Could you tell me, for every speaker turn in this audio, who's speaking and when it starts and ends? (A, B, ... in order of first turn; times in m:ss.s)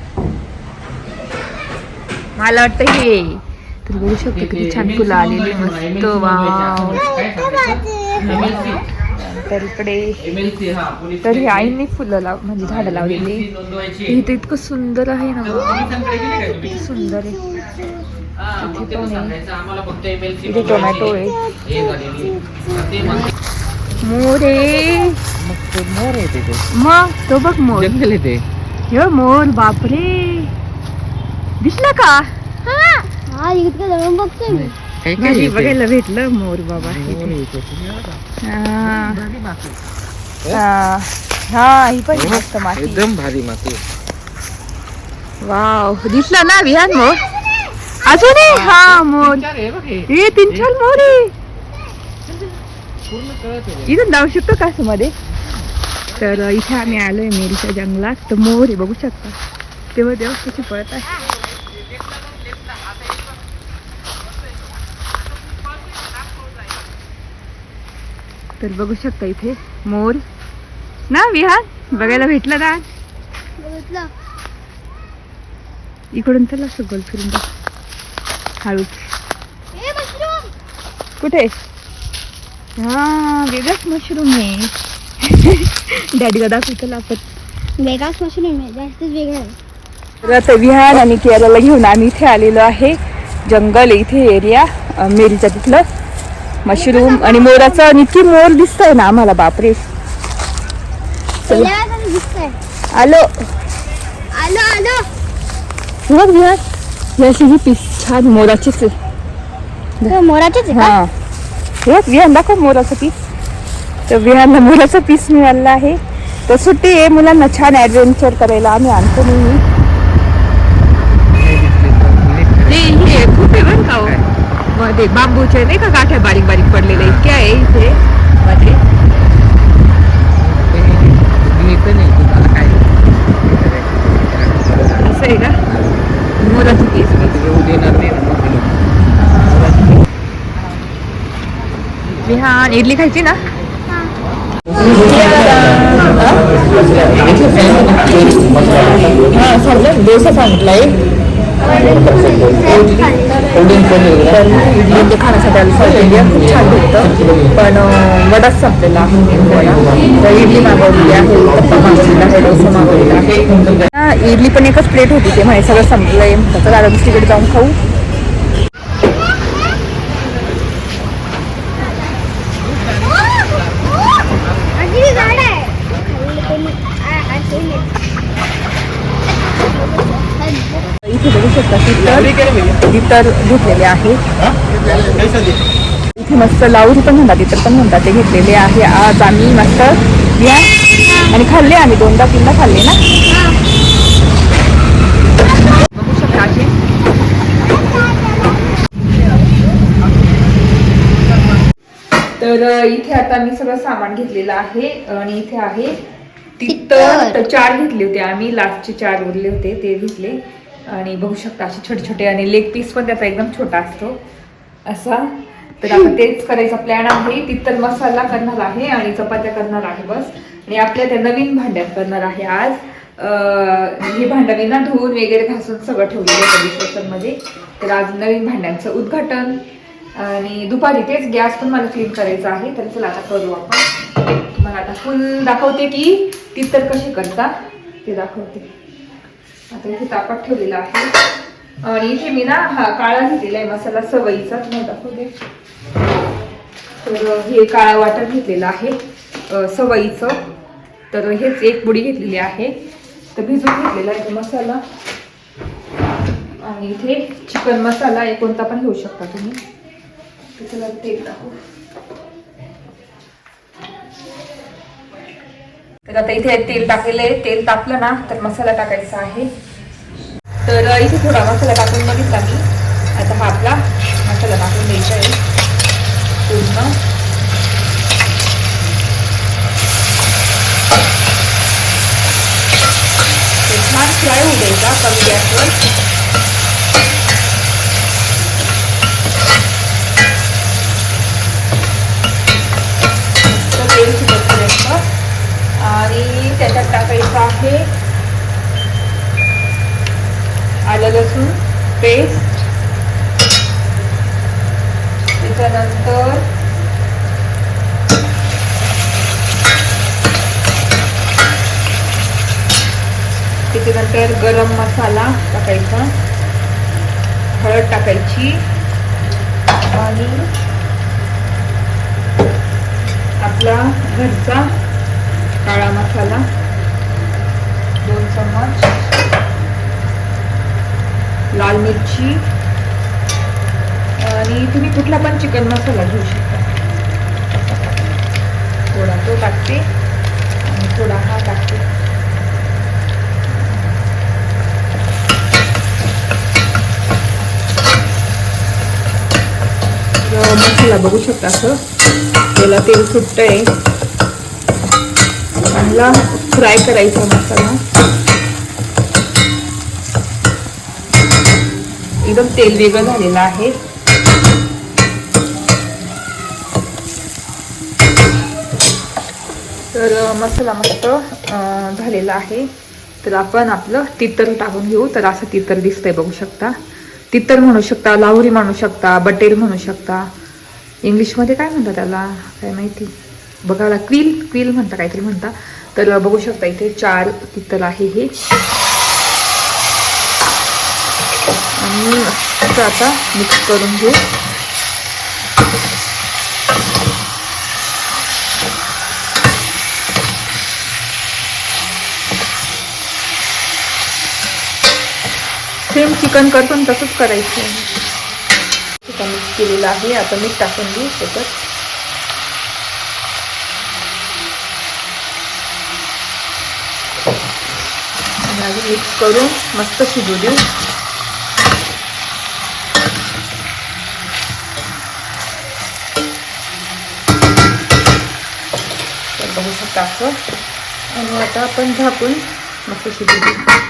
0:02.4-0:07.0 A
0:04.1-0:08.8 B
0:07.4-0:08.4 C
0:08.2-0:10.2 A
0:10.2-0:11.7 B
0:11.2-0:13.5 A
0:12.6-0:14.1 B
0:14.1-0:16.0 A
0:15.7-0:16.7 B
0:15.7-0:18.0 C
0:16.6-0:17.4 A
0:18.4-0:23.3 B
0:18.6-0:19.4 A
0:20.4-0:21.4 A
0:21.3-0:23.1 C
0:24.0-0:25.2 A
0:25.4-0:26.6 B
0:26.7-0:28.0 A
0:27.7-0:28.4 B
0:28.9-0:30.5 A
0:31.6-0:32.3 A
0:32.6-0:34.7 C
0:34.5-0:35.8 B
0:35.2-0:37.3 A
0:36.8-0:38.2 B
0:38.4-0:39.2 A
0:38.8-0:39.8 B
0:40.5-0:43.0 A
0:42.1-0:43.8 B
0:45.4-0:47.2 A
0:48.0-0:49.5 A
0:48.4-0:50.7 B
0:50.1-0:51.3 A
0:53.1-0:53.9 B
0:53.8-0:55.1 A
0:56.1-0:59.4 A
0:59.9-1:01.2 A
1:08.6-1:10.2 A
1:11.1-1:12.8 A
1:11.9-1:12.2 C
1:13.6-1:14.1 C
1:16.1-1:17.4 A
1:18.6-1:19.1 A
1:19.7-1:20.5 C
1:21.2-1:21.5 A
1:22.8-1:27.2 A
1:27.8-1:29.6 C
1:30.2-1:35.8 A
1:36.6-1:39.8 A
1:36.7-1:37.9 C
1:41.4-1:42.6 C
1:41.5-1:41.7 A
1:42.9-1:43.4 A
1:44.3-1:45.1 C
1:46.1-1:46.6 A
1:47.2-1:48.9 A
1:50.1-1:51.0 C
1:50.7-1:51.1 A
1:51.8-1:53.1 A
1:54.1-1:59.6 A
2:01.3-2:04.3 B
2:02.7-2:04.2 A
2:04.7-2:08.8 A
2:06.9-2:07.3 B
2:10.3-2:15.1 B
2:15.0-2:15.6 A
2:16.4-2:17.3 A
2:17.0-2:18.9 B
2:19.2-2:19.9 A
2:22.2-2:23.4 A
2:23.9-2:24.1 C
2:24.8-2:28.3 A
2:29.2-2:31.0 A
2:31.6-2:34.1 C
2:32.6-2:33.1 A
2:34.1-2:47.8 A
2:51.8-2:52.2 C
2:54.7-2:58.0 C
2:59.4-3:00.9 C
3:01.0-3:04.2 A
3:06.2-3:10.7 A
3:11.3-3:13.0 A
3:13.3-3:13.6 C
3:15.9-3:16.7 A
3:17.8-3:18.7 C
3:22.4-3:26.0 A
3:26.6-3:34.2 A
3:26.7-3:27.4 C
3:34.9-3:49.6 A
3:50.1-3:53.8 A
3:54.5-3:58.6 A
3:59.7-4:01.1 A
4:01.8-4:05.3 A
4:07.0-4:09.0 A
4:09.5-4:10.4 A
4:11.1-4:12.7 A
4:13.3-4:14.8 A
4:16.6-4:19.6 A
4:20.6-4:21.5 A
4:26.0-4:29.5 A
4:30.6-4:35.4 A
4:36.4-4:36.9 A
4:43.7-4:45.8 A
4:53.5-4:55.0 A
4:55.8-4:57.9 A
5:00.9-5:02.7 A
5:05.4-5:06.4 A
5:13.7-5:16.1 A
5:17.5-5:18.6 A
5:19.8-5:20.5 A
5:23.4-5:24.7 A
5:25.6-5:26.4 A
5:28.0-5:29.0 A
5:31.5-5:32.4 A
5:34.2-5:36.7 A
5:38.9-5:39.8 A
5:40.6-5:41.8 A
5:50.2-5:51.8 A
5:52.5-5:53.7 A
5:55.7-5:57.8 A
6:02.2-6:03.7 A
6:09.9-6:12.7 A
6:13.2-6:16.8 A
6:17.3-6:20.3 A
6:21.0-6:23.1 A
6:23.6-6:28.3 A
6:31.8-6:34.2 A
6:45.9-6:47.9 A
6:49.0-6:51.5 A
6:58.4-7:00.6 A
7:09.4-7:10.4 A
7:11.1-7:13.7 A